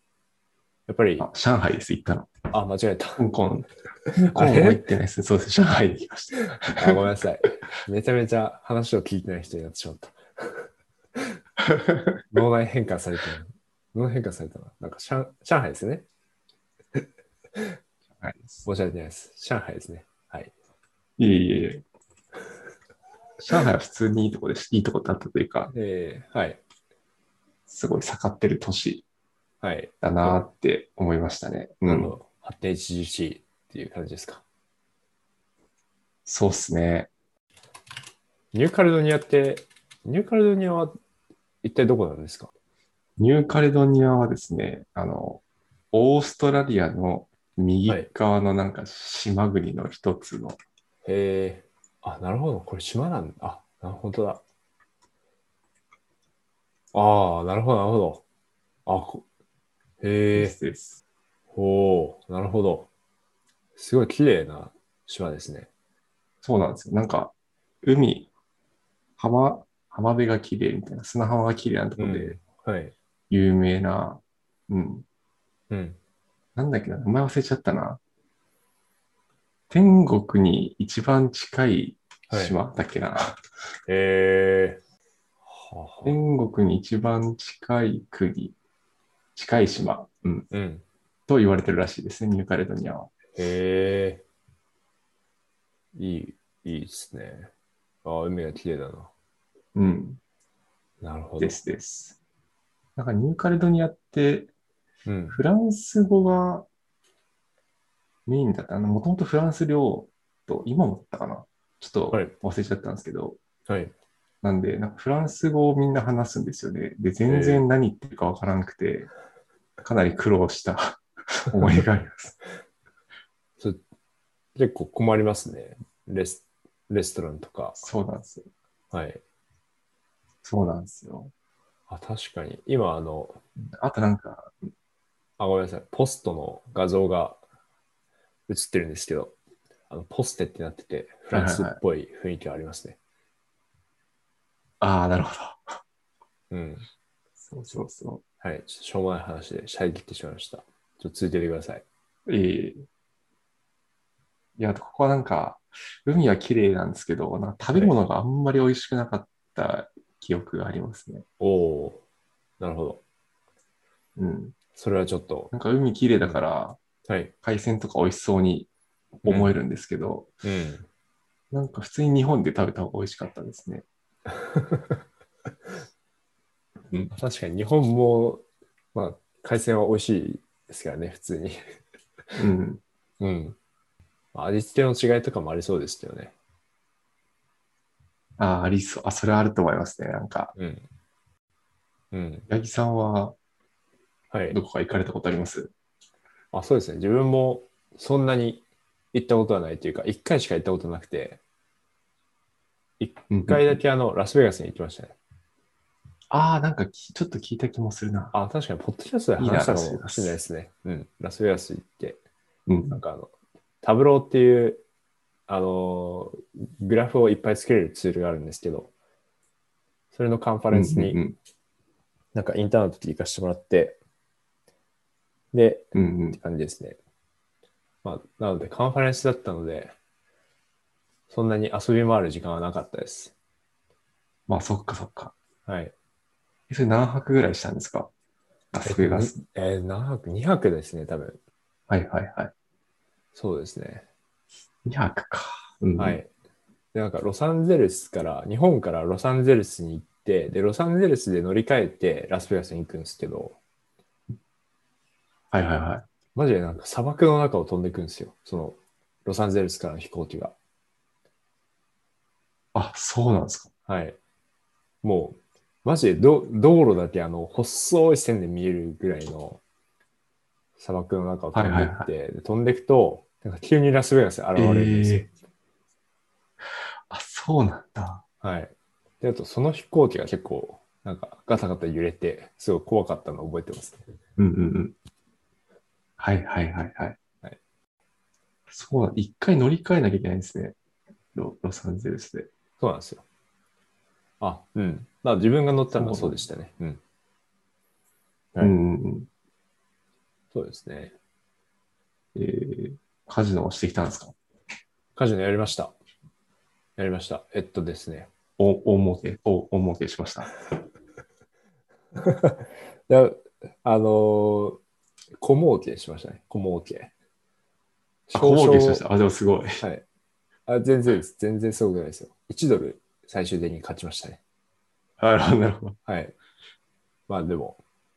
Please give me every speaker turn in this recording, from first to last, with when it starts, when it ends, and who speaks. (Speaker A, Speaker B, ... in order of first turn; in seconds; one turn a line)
Speaker A: 0.9-1.3
Speaker B: 1.2-2.5
Speaker A: 2.5-3.2
Speaker B: 3.2-7.0
Speaker A: 4.1-4.8
Speaker A: 6.7-11.3
Speaker B: 11.9-12.4
Speaker A: 12.3-16.0
Speaker B: 18.2-18.6
Speaker A: 18.6-20.5
Speaker B: 21.2-21.8
Speaker B: 23.4-25.7
Speaker A: 25.7-26.6
Speaker B: 27.7-29.0
Speaker A: 29.6-30.4
Speaker B: 30.0-32.1
Speaker A: 31.9-34.4
Speaker B: 36.2-37.1
Speaker A: 38.5-40.9
Speaker A: 41.6-42.5
Speaker B: 43.2-45.4
Speaker B: 45.9-50.6
Speaker A: 51.0-54.4
Speaker A: 56.9-58.2
Speaker A: 58.9-59.2
Speaker A: 60.0-60.5
Speaker B: 60.3-61.0
Speaker A: 61.5-62.9
Speaker A: 63.8-65.7
Speaker B: 66.4-67.3
Speaker B: 67.8-68.3
Speaker B: 69.2-72.4
Speaker A: 72.0-72.9
Speaker B: 73.3-75.0
Speaker A: 75.7-76.0
Speaker B: 76.5-78.0
Speaker B: 79.7-83.4
Speaker A: 82.3-82.5
Speaker A: 83.9-84.8
Speaker A: 85.5-86.1
Speaker B: 86.0-88.5
Speaker B: 89.3-90.5
Speaker A: 90.5-90.8
Speaker B: 91.3-93.1
Speaker A: 93.3-94.2
Speaker A: 95.9-97.5
Speaker A: 98.0-99.1
Speaker B: 99.7-100.2
Speaker A: 101.0-101.6
Speaker B: 101.4-102.2
Speaker B: 103.0-104.5
Speaker A: 105.0-105.4
Speaker B: 105.3-106.7
Speaker B: 108.2-113.4
Speaker A: 113.7-113.9
Speaker B: 114.4-119.1
Speaker A: 117.2-117.6
Speaker B: 119.8-122.3
Speaker A: 124.5-127.8
Speaker B: 127.8-128.5
Speaker A: 128.9-129.2
Speaker B: 130.4-131.3
Speaker A: 131.9-133.4
Speaker B: 133.7-134.5
Speaker A: 135.4-137.4
Speaker A: 138.5-139.3
Speaker A: 139.9-143.0
Speaker B: 141.3-141.8
Speaker B: 144.8-145.8
Speaker A: 146.5-146.9
Speaker B: 147.5-148.2
Speaker A: 148.4-151.8
Speaker B: 152.3-152.8
Speaker B: 154.6-161.2
Speaker A: 161.4-162.0
Speaker A: 162.6-163.0
Speaker B: 164.2-164.6
Speaker A: 164.7-165.5
Speaker B: 165.5-166.8
Speaker A: 167.1-167.3
Speaker B: 167.4-168.7
Speaker B: 169.2-170.3
Speaker A: 169.2-169.5
Speaker A: 170.4-170.8
Speaker B: 171.5-173.8
Speaker A: 174.3-175.0
Speaker A: 176.9-181.6
Speaker B: 182.3-182.8
Speaker A: 183.2-183.6
Speaker A: 184.3-186.3
Speaker B: 188.4-190.5
Speaker A: 190.6-190.9
Speaker A: 192.1-192.5
Speaker B: 192.5-193.3
Speaker A: 194.3-194.6
Speaker B: 194.5-195.7
Speaker A: 196.5-201.4
Speaker A: 203.0-205.2
Speaker B: 203.3-203.8
Speaker B: 206.3-208.3
Speaker A: 208.3-212.2
Speaker B: 209.4-210.4
Speaker B: 212.7-213.0
Speaker A: 212.9-214.8
Speaker A: 215.5-218.9
Speaker A: 220.1-221.2
Speaker B: 220.7-221.3
Speaker A: 222.3-224.0
Speaker A: 225.5-227.0
Speaker B: 225.9-226.4
Speaker A: 228.0-229.9
Speaker A: 231.3-233.3
Speaker B: 234.5-235.3
Speaker A: 235.7-235.9
Speaker B: 236.7-238.1
Speaker B: 238.7-239.4
Speaker A: 238.8-241.4
Speaker B: 241.9-242.5
Speaker A: 243.3-244.0
Speaker B: 244.8-246.2
Speaker A: 246.0-246.3
Speaker A: 246.9-253.6
Speaker B: 255.5-256.0
Speaker A: 256.3-260.5
Speaker B: 262.7-263.7
Speaker A: 263.9-264.2
Speaker A: 265.0-269.6
Speaker A: 270.8-275.3
Speaker B: 271.5-272.1
Speaker B: 274.6-275.3
Speaker B: 277.1-278.2
Speaker A: 278.4-284.0
Speaker B: 284.4-284.9
Speaker B: 286.2-287.2
Speaker B: 288.7-290.8
Speaker B: 291.3-292.5
Speaker A: 292.8-293.2
Speaker A: 294.4-297.0
Speaker B: 296.0-296.4
Speaker B: 298.6-299.3
Speaker A: 300.5-301.1
Speaker B: 302.3-304.3
Speaker A: 305.1-305.9
Speaker A: 307.0-308.3
Speaker B: 308.6-310.5
Speaker A: 312.1-314.8
Speaker A: 315.4-317.1
Speaker A: 318.3-319.0
Speaker B: 318.3-319.8
Speaker A: 320.7-324.4
Speaker B: 325.2-326.0
Speaker A: 326.1-326.3
Speaker A: 327.3-327.8